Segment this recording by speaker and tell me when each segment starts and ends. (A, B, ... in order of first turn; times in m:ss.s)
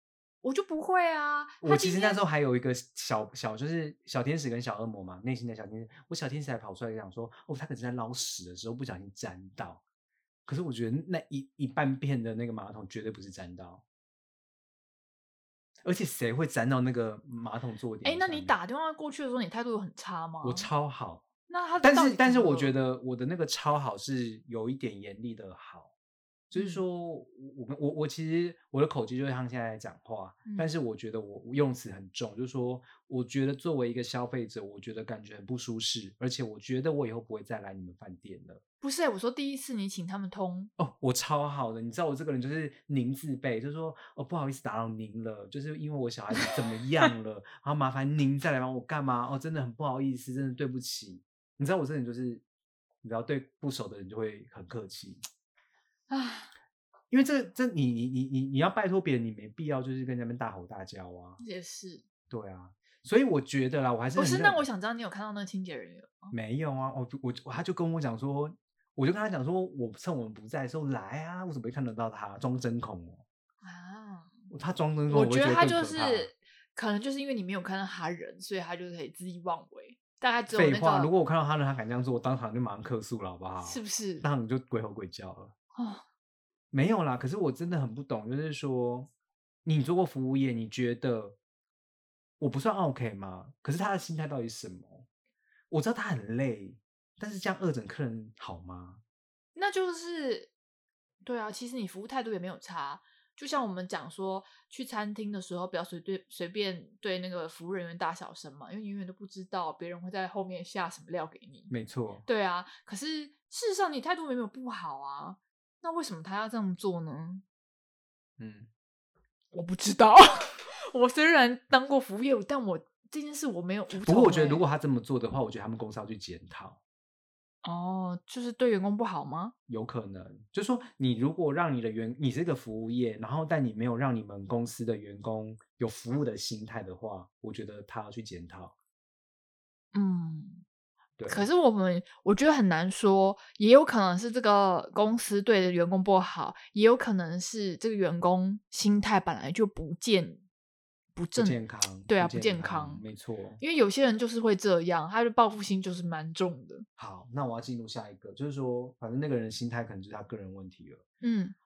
0:00.4-0:02.2 A
0:01.6-0:09.8 B
0:10.5-0:13.8 B
0:15.8-0:18.6 B
0:18.0-0:20.7 A
0:20.4-0:21.3 B
0:21.5-0:22.7 A
0:21.8-0:25.9 B
0:26.5-0:38.6 B
0:26.6-0:26.8 A
0:38.8-0:40.7 A
0:40.8-0:52.4 B
0:53.0-0:55.2 B
0:56.1-0:56.5 A
0:57.1-1:01.4 B
1:01.4-1:02.0 A
1:02.3-1:04.6 B
1:04.2-1:06.3 A
1:06.3-1:13.2 B
1:13.6-1:14.3 A
1:14.5-1:16.3 B
1:15.1-1:21.1 A
1:20.5-1:25.5 B
1:23.6-1:24.2 A
1:25.8-1:26.0 A
1:26.7-1:29.1 B
1:29.6-1:31.4 B
1:32.4-1:35.1 B
1:35.7-1:39.0 B
1:39.6-1:40.5 A
1:41.2-1:51.7 A
1:51.7-1:52.2 B
1:52.3-1:57.4 A
1:58.4-1:58.7 B
1:59.5-2:04.6 A
2:04.0-2:06.8 B
2:07.6-2:09.5 A
2:09.7-2:18.7 B
2:19.9-2:20.6 A
2:21.2-2:21.5 B
2:21.3-2:30.4 A
2:31.2-2:33.0 A
2:31.4-2:33.6 B
2:33.6-2:36.9 A
2:37.0-2:41.0 B
2:41.2-2:41.6 A